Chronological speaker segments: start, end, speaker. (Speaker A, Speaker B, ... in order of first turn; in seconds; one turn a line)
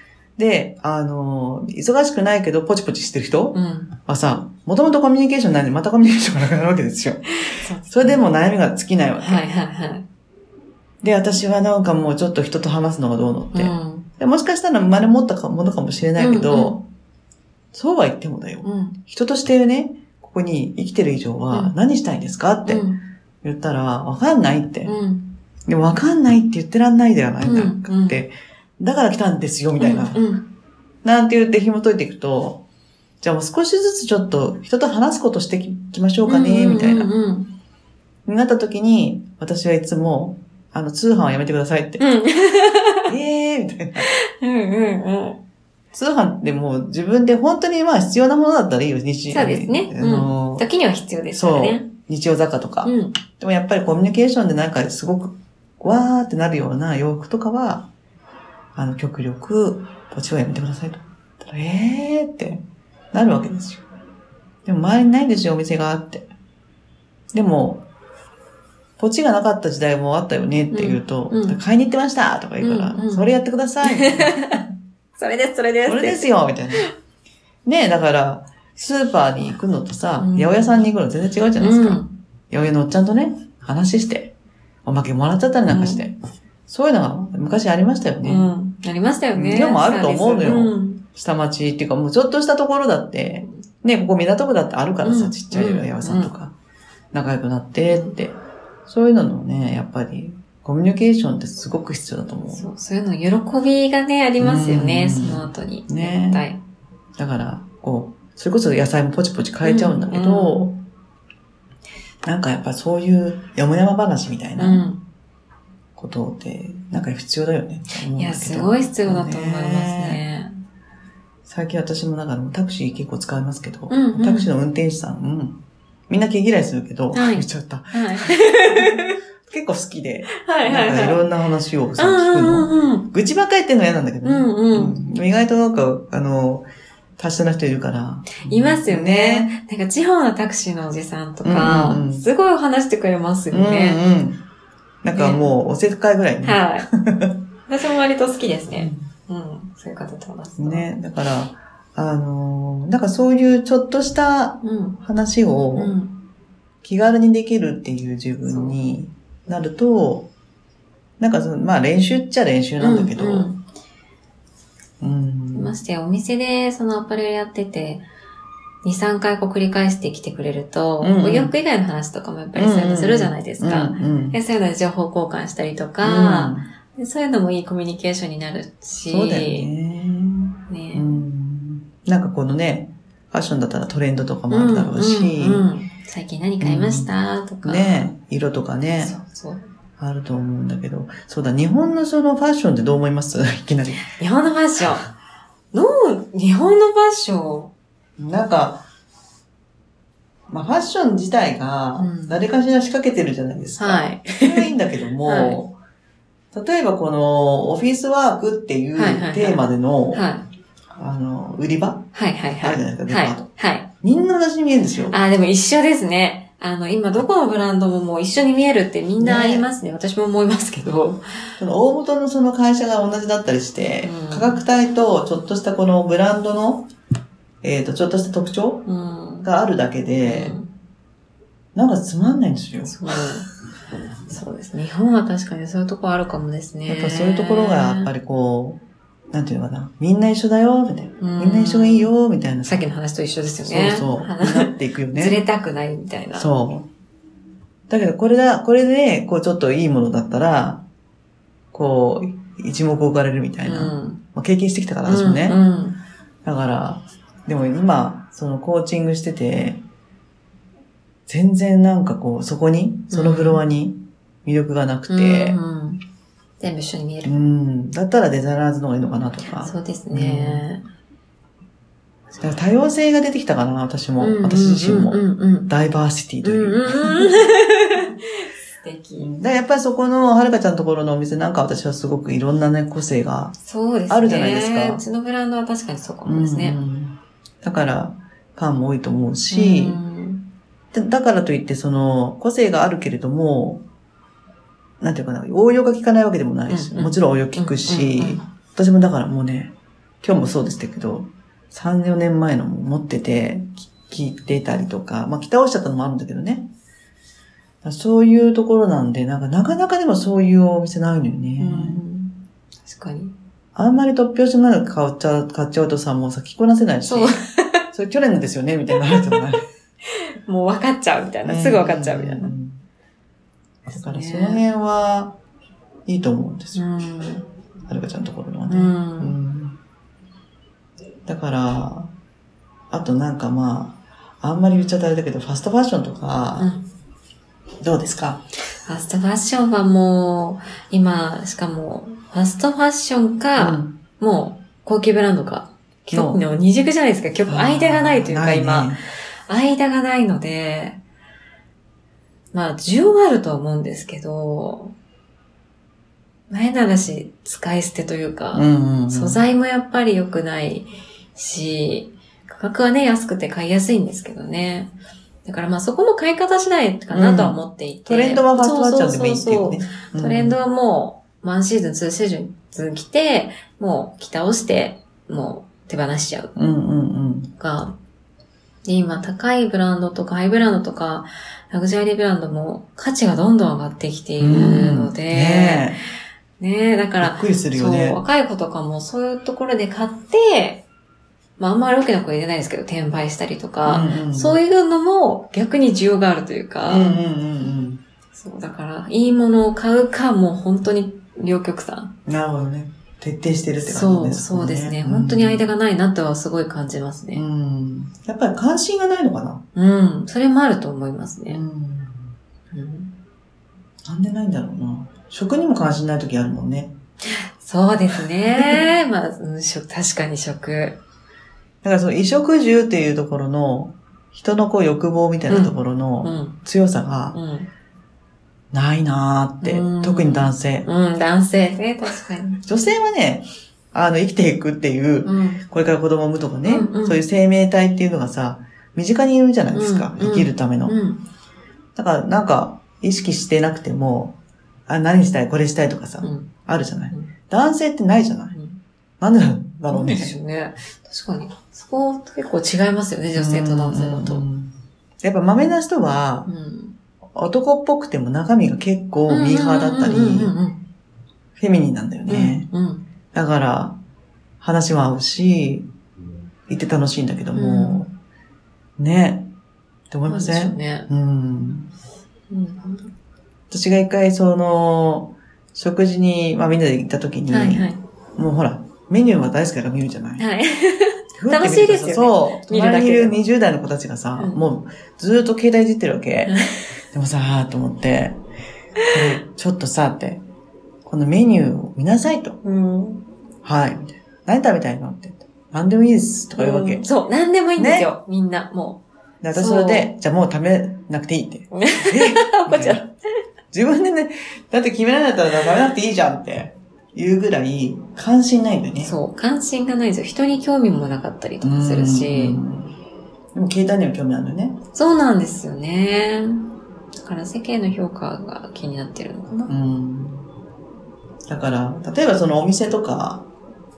Speaker A: 0.4-7.3
Speaker B: 3.5-3.9
Speaker B: 7.5-8.3
Speaker A: 7.9-9.4
Speaker B: 9.2-10.0
Speaker A: 11.0-16.9
Speaker B: 13.5-14.1
Speaker B: 16.2-16.8
Speaker A: 17.7-22.9
Speaker B: 18.6-19.0
Speaker B: 22.6-23.0
Speaker A: 23.4-25.0
Speaker B: 24.9-25.3
Speaker A: 25.7-30.2
Speaker B: 27.4-28.2
Speaker B: 29.8-30.5
Speaker A: 31.0-32.6
Speaker A: 33.2-37.1
Speaker B: 36.3-37.5
Speaker A: 38.2-42.0
Speaker B: 42.0-43.1
Speaker A: 43.1-44.1
Speaker B: 44.0-45.4
Speaker A: 45.9-50.6
Speaker B: 49.3-51.9
Speaker A: 51.3-57.9
Speaker B: 52.9-53.1
Speaker A: 58.8-63.8
Speaker A: 64.6-66.3
Speaker A: 67.3-67.9
Speaker A: 69.0-74.6
Speaker B: 70.7-71.6
Speaker B: 72.6-73.3
Speaker B: 73.8-74.6
Speaker B: 75.2-76.9
Speaker A: 75.8-76.9
Speaker A: 77.6-84.3
Speaker B: 80.2-80.9
Speaker B: 81.6-82.1
Speaker A: 84.8-86.1
Speaker B: 85.7-86.1
Speaker A: 86.7-88.5
Speaker B: 88.2-91.0
Speaker A: 89.3-96.5
Speaker B: 95.0-96.3
Speaker A: 97.1-102.7
Speaker B: 102.5-106.6
Speaker A: 104.4-106.4
Speaker A: 107.2-110.8
Speaker B: 109.6-110.7
Speaker A: 112.2-114.8
Speaker B: 114.6-115.0
Speaker A: 116.0-120.2
Speaker B: 118.2-120.5
Speaker A: 121.5-136.7
Speaker B: 123.9-124.5
Speaker B: 127.1-129.2
Speaker B: 130.3-131.2
Speaker B: 132.0-133.1
Speaker B: 134.2-135.0
Speaker A: 137.2-139.5
Speaker B: 138.4-144.0
Speaker A: 141.4-142.3
Speaker A: 143.5-144.4
Speaker A: 145.0-147.4
Speaker B: 145.1-145.4
Speaker B: 146.4-146.9
Speaker B: 147.7-150.9
Speaker A: 148.7-149.1
Speaker A: 150.6-155.9
Speaker B: 154.6-155.0
Speaker B: 155.8-156.1
Speaker A: 156.8-160.3
Speaker B: 158.5-158.8
Speaker A: 161.2-163.5
Speaker B: 162.8-163.6
Speaker A: 165.0-165.8
Speaker B: 165.5-168.0
Speaker B: 168.8-179.7
Speaker A: 171.0-171.5
Speaker A: 172.5-174.4
Speaker A: 176.0-176.7
Speaker A: 179.1-185.7
Speaker B: 180.7-181.1
Speaker B: 184.5-188.1
Speaker A: 186.6-187.1
Speaker A: 187.6-189.2
Speaker B: 189.0-189.6
Speaker A: 190.0-194.1
Speaker B: 194.1-195.1
Speaker B: 195.7-197.7
Speaker A: 198.2-198.8
Speaker A: 200.5-205.8
Speaker B: 202.0-202.4
Speaker B: 203.8-204.7
Speaker B: 205.2-205.6
Speaker A: 206.5-210.2
Speaker B: 208.9-210.4
Speaker A: 210.9-213.5
Speaker B: 212.1-213.9
Speaker A: 214.0-215.2
Speaker B: 215.1-221.2
Speaker A: 219.2-219.7
Speaker A: 221.6-226.9
Speaker B: 224.0-224.6
Speaker A: 227.6-228.9
Speaker B: 228.9-229.5
Speaker A: 229.4-230.6
Speaker B: 230.2-230.7
Speaker A: 231.8-232.9
Speaker B: 232.8-233.5
Speaker B: 234.3-238.1
Speaker A: 236.9-242.8
Speaker B: 241.2-242.1
Speaker B: 242.7-246.5
Speaker A: 243.6-245.4
Speaker A: 246.3-246.9
Speaker A: 247.9-250.8
Speaker A: 251.7-255.6
Speaker B: 253.6-254.2
Speaker B: 255.1-256.0
Speaker A: 256.4-259.8
Speaker A: 261.3-265.6
Speaker B: 263.1-263.6
Speaker B: 265.1-266.0
Speaker B: 266.6-267.3
Speaker A: 267.2-270.6
Speaker B: 269.6-270.8
Speaker A: 272.4-277.5
Speaker B: 274.2-275.7
Speaker B: 276.4-279.3
Speaker A: 279.2-283.6
Speaker B: 283.6-286.8
Speaker A: 284.1-285.0
Speaker A: 286.2-290.0
Speaker B: 289.5-290.4
Speaker A: 290.9-293.8
Speaker A: 295.0-306.7
Speaker B: 296.7-298.4
Speaker A: 307.8-312.0
Speaker B: 311.6-313.3
Speaker A: 313.8-317.4
Speaker B: 317.1-317.9
Speaker A: 317.9-319.6
Speaker B: 320.5-322.5
Speaker A: 321.4-322.8
Speaker B: 323.9-324.6
Speaker A: 323.9-325.4
Speaker A: 326.1-326.8
Speaker B: 326.8-327.5
Speaker A: 327.9-329.8
Speaker B: 328.7-329.4
Speaker A: 331.2-332.1
Speaker A: 332.9-336.7
Speaker B: 336.6-336.9
Speaker A: 337.8-338.5
Speaker B: 338.9-349.0
Speaker A: 343.6-344.0
Speaker A: 346.1-346.4
Speaker A: 347.5-349.0
Speaker B: 349.5-351.0
Speaker B: 352.5-354.9
Speaker B: 356.5-364.9
Speaker A: 358.5-359.4
Speaker B: 365.4-376.5
Speaker A: 367.1-370.6
Speaker A: 376.6-377.5
Speaker B: 377.6-378.0
Speaker B: 378.9-385.9
Speaker A: 384.4-386.0
Speaker B: 386.6-390.9
Speaker A: 387.2-388.2
Speaker B: 391.6-397.1
Speaker A: 393.8-394.6
Speaker A: 396.9-398.0
Speaker B: 398.3-402.1
Speaker A: 402.2-405.6
Speaker B: 403.9-407.4
Speaker A: 407.3-409.6
Speaker B: 409.8-411.6
Speaker A: 411.5-412.3
Speaker B: 412.7-413.1
Speaker A: 414.0-416.9
Speaker B: 417.2-421.0
Speaker A: 418.6-418.8
Speaker A: 421.8-427.4
Speaker B: 425.5-426.6
Speaker B: 427.3-427.7
Speaker A: 428.7-430.9
Speaker B: 429.6-432.6
Speaker A: 432.6-441.0
Speaker B: 435.2-435.6
Speaker B: 436.6-437.2
Speaker B: 439.7-441.2
Speaker A: 442.0-448.6
Speaker B: 446.2-446.5
Speaker B: 448.5-448.8
Speaker A: 449.2-450.4
Speaker B: 449.9-454.4
Speaker A: 453.4-456.5
Speaker B: 456.5-456.9
Speaker A: 457.3-460.5
Speaker B: 459.3-460.8
Speaker A: 461.6-462.7
Speaker B: 462.3-463.0
Speaker A: 463.3-464.0
Speaker A: 464.6-465.9
Speaker A: 466.7-468.1
Speaker B: 467.5-468.0
Speaker A: 469.0-469.5
Speaker A: 470.1-471.9
Speaker B: 470.3-471.1
Speaker B: 472.5-473.1
Speaker A: 473.7-480.5
Speaker B: 477.5-478.0
Speaker B: 480.4-483.4
Speaker A: 481.4-486.6
Speaker B: 486.5-486.9
Speaker A: 487.1-488.4
Speaker B: 489.0-489.4
Speaker A: 489.1-490.4
Speaker A: 491.0-492.6
Speaker B: 492.6-493.2
Speaker A: 493.6-497.0
Speaker B: 496.6-500.1
Speaker A: 497.8-498.1
Speaker A: 499.4-503.1
Speaker B: 501.7-503.1
Speaker A: 503.7-509.1
Speaker B: 509.0-512.6
Speaker A: 511.6-512.9
Speaker A: 513.5-514.8
Speaker B: 514.9-516.7
Speaker B: 517.2-519.7
Speaker A: 519.7-520.5
Speaker A: 521.5-523.5